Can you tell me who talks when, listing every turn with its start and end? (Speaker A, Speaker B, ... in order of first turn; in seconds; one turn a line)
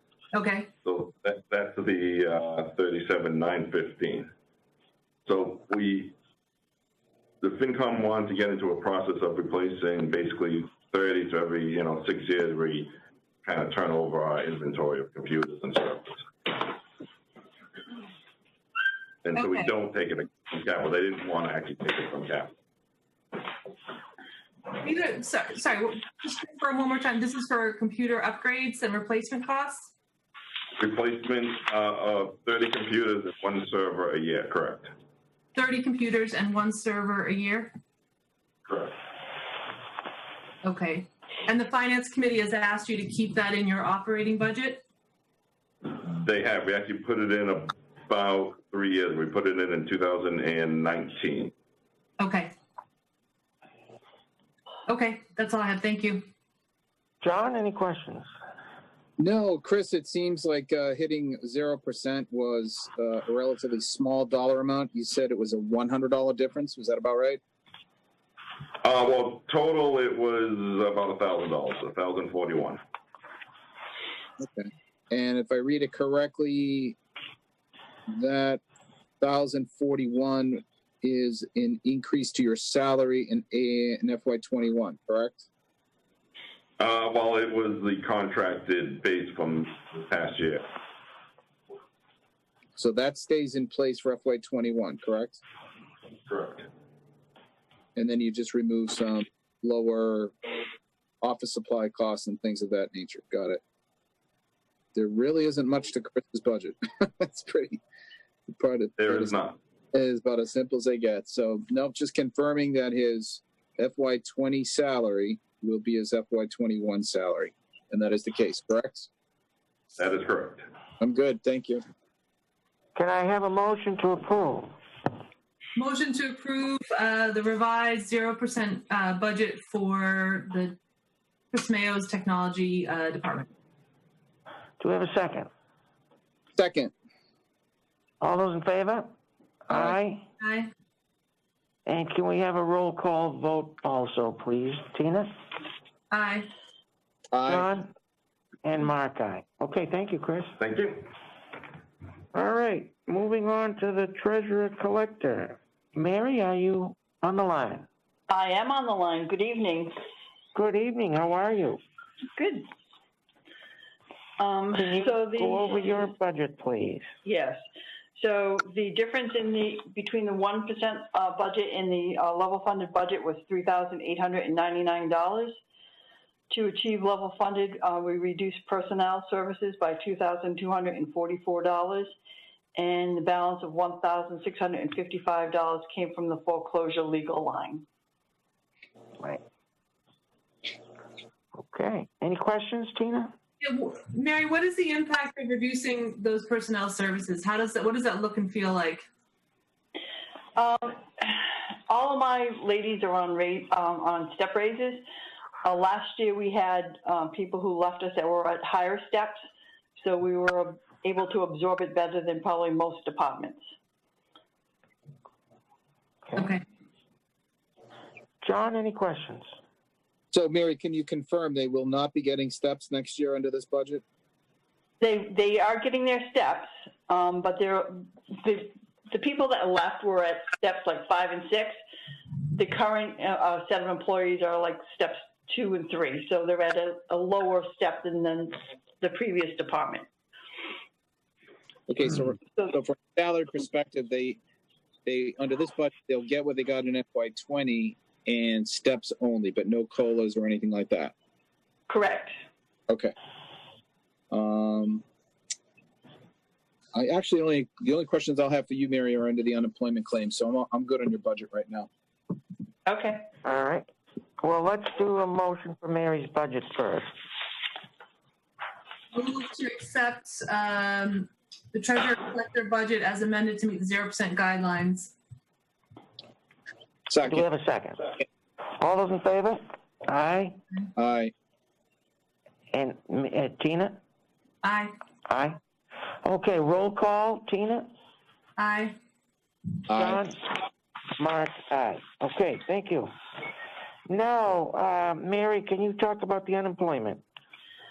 Speaker A: 0.3-0.7
Speaker B: 0.8-4.3
Speaker B: 5.3-6.2
Speaker B: 7.4-16.2
Speaker B: 19.2-22.5
Speaker A: 19.4-19.7
Speaker A: 24.8-29.9
Speaker B: 30.8-34.9
Speaker A: 35.5-37.7
Speaker B: 38.7-39.0
Speaker A: 40.6-44.8
Speaker B: 45.9-51.5
Speaker A: 52.2-52.5
Speaker A: 54.9-56.2
Speaker C: 57.2-58.3
Speaker D: 59.2-67.4
Speaker B: 68.8-72.8
Speaker D: 74.4-77.0
Speaker D: 78.1-78.6
Speaker D: 79.2-85.5
Speaker B: 86.8-90.7
Speaker D: 92.8-95.4
Speaker B: 96.3-96.7
Speaker D: 98.0-100.3
Speaker D: 101.2-103.6
Speaker D: 104.9-107.8
Speaker D: 108.5-109.3
Speaker B: 109.0-109.6
Speaker D: 109.9-119.1
Speaker B: 120.0-120.7
Speaker D: 121.0-121.8
Speaker C: 123.0-124.7
Speaker A: 125.8-130.8
Speaker A: 131.5-133.5
Speaker C: 134.8-135.5
Speaker D: 136.6-136.9
Speaker C: 138.2-139.1
Speaker C: 139.7-140.2
Speaker D: 139.7-140.0
Speaker A: 140.4-140.7
Speaker C: 141.9-145.3
Speaker A: 146.1-146.5
Speaker D: 147.3-147.7
Speaker C: 147.5-147.9
Speaker C: 148.6-150.5
Speaker B: 150.6-151.1
Speaker C: 152.3-157.9
Speaker E: 158.3-159.9
Speaker C: 160.5-161.8
Speaker E: 162.4-162.7
Speaker E: 164.4-166.1
Speaker C: 164.7-167.1
Speaker E: 167.2-167.6
Speaker E: 168.2-175.6
Speaker E: 176.5-182.1
Speaker E: 182.8-187.8
Speaker C: 191.7-193.3
Speaker A: 193.6-199.1
Speaker E: 200.6-205.0
Speaker E: 205.6-209.4
Speaker E: 210.0-213.6
Speaker A: 216.4-216.6
Speaker C: 218.4-219.5
Speaker D: 220.3-224.0
Speaker E: 225.0-231.8
Speaker E: 232.5-240.1
Speaker D: 241.9-244.4
Speaker D: 245.1-251.1
Speaker E: 251.9-252.3
Speaker D: 254.3-255.0
Speaker D: 256.9-261.9
Speaker E: 262.9-263.3
Speaker C: 263.4-263.9
Speaker C: 264.4-267.1
Speaker A: 269.1-275.1
Speaker D: 277.1-277.4
Speaker C: 277.2-278.1
Speaker C: 278.8-280.6
Speaker D: 280.9-281.3
Speaker C: 282.7-284.0
Speaker A: 284.6-284.9
Speaker C: 285.3-285.6
Speaker C: 286.2-287.9
Speaker A: 288.6-289.0
Speaker D: 289.9-290.2
Speaker C: 289.9-290.4
Speaker C: 291.2-293.1
Speaker C: 294.1-297.2